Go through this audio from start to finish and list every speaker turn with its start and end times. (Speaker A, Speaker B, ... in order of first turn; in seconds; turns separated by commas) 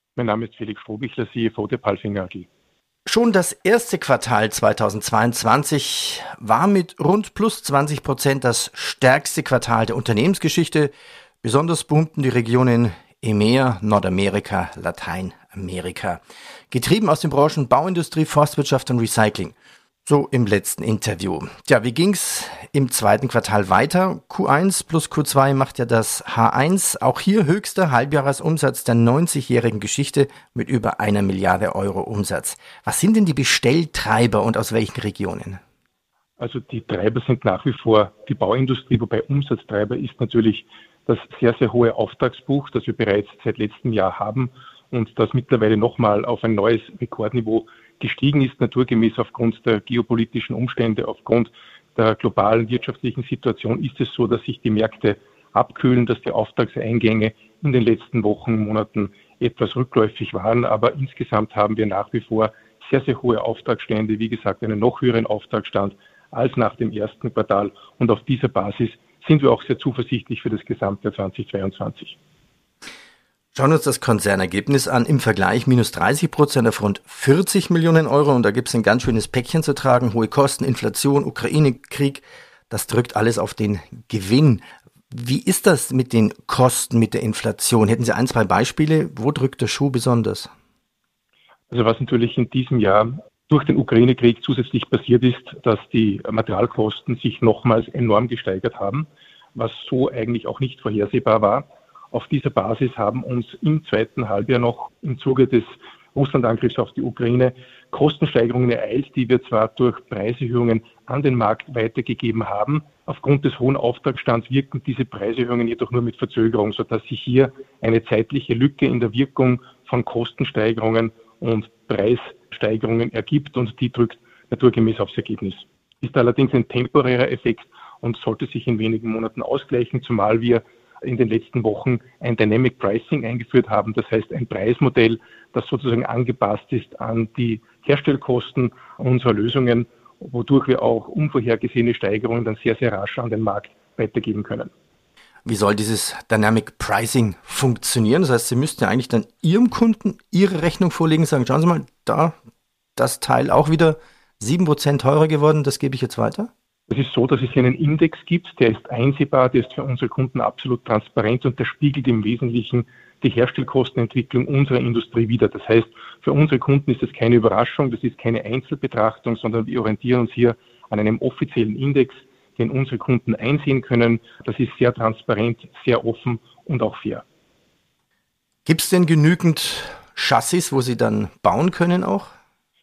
Speaker A: 0.2-2.5, Speaker B: 3.0-35.6, Speaker A: 36.4-72.2, Speaker B: 73.5-90.5, Speaker A: 91.7-144.7, Speaker B: 145.4-152.3, Speaker B: 152.9-156.5, Speaker A: 156.9-177.2, Speaker B: 178.6-182.3